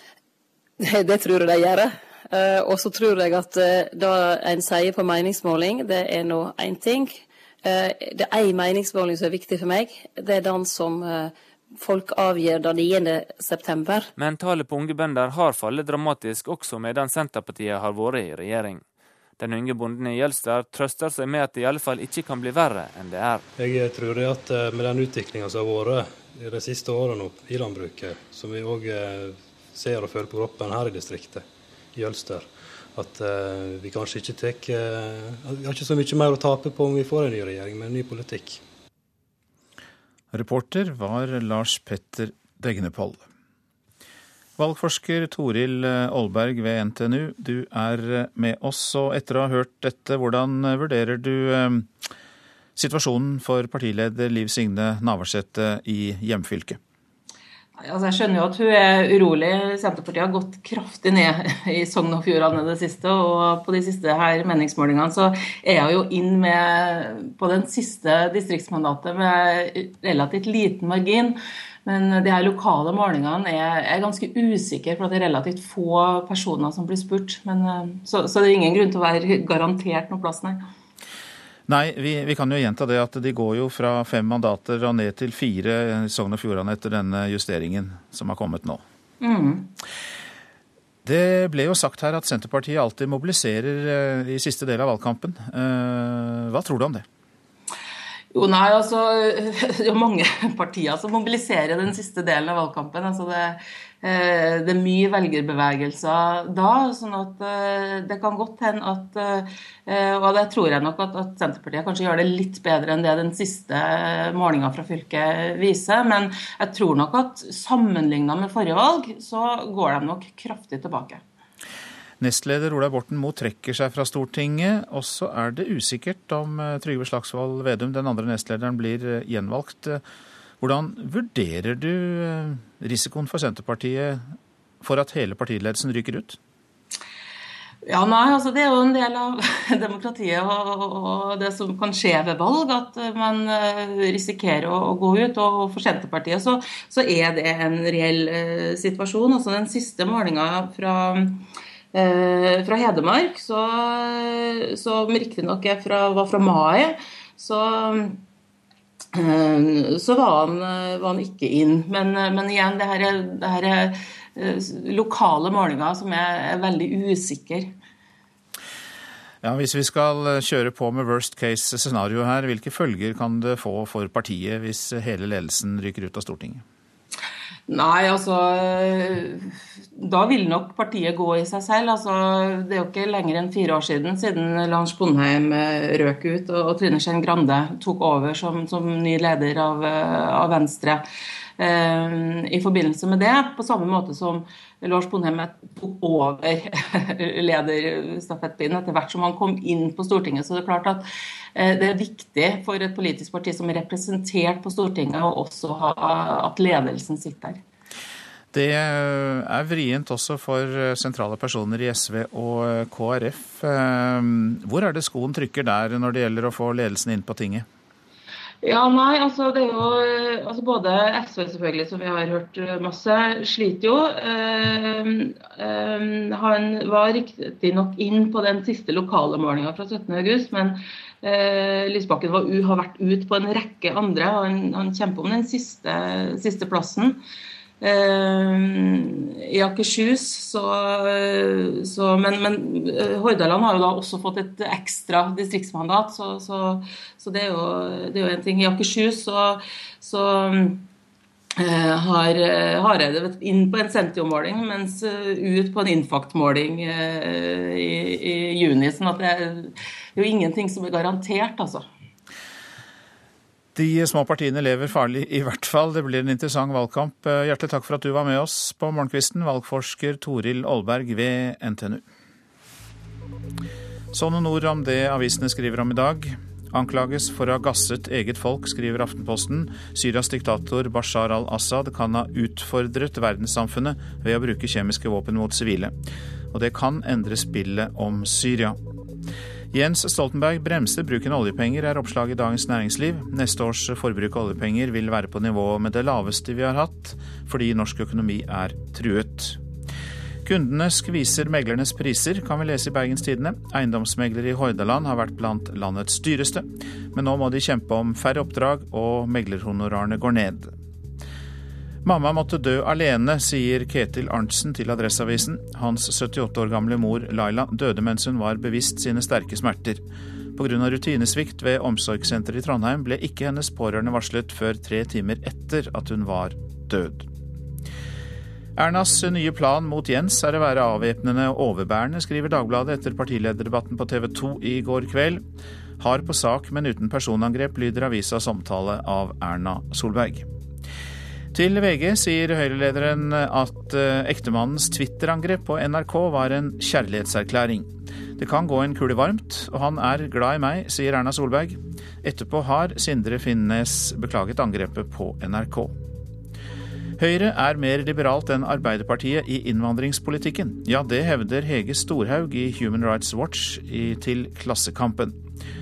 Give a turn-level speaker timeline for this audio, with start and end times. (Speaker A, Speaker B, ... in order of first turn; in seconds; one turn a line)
Speaker A: 0.8-14.1
Speaker B: 14.2-18.8
Speaker B: 19.4-23.4
Speaker C: 23.6-38.6
Speaker D: 40.3-43.3
Speaker D: 44.6-52.1
Speaker D: 52.8-56.8
Speaker E: 57.8-80.7
Speaker D: 81.7-88.8
Speaker E: 89.2-89.7
Speaker D: 91.0-97.1
Speaker E: 98.3-121.2
Speaker D: 122.2-130.0
Speaker D: 130.6-136.4
Speaker E: 137.8-158.2
Speaker E: 159.1-167.7
Speaker D: 169.4-176.6
Speaker E: 177.7-191.0
Speaker E: 191.6-201.1
Speaker E: 201.6-207.6
Speaker D: 208.5-217.7
Speaker E: 218.6-237.2
Speaker E: 237.8-250.9
Speaker E: 251.6-261.9
Speaker D: 263.8-272.1
Speaker D: 274.1-285.9
Speaker D: 286.5-288.8
Speaker D: 289.7-299.6
Speaker D: 300.4-310.7
Speaker D: 312.0-320.0
Speaker D: 320.6-327.3
Speaker D: 328.8-335.4
Speaker D: 336.0-340.5
Speaker D: 341.5-356.0
Speaker D: 357.2-365.4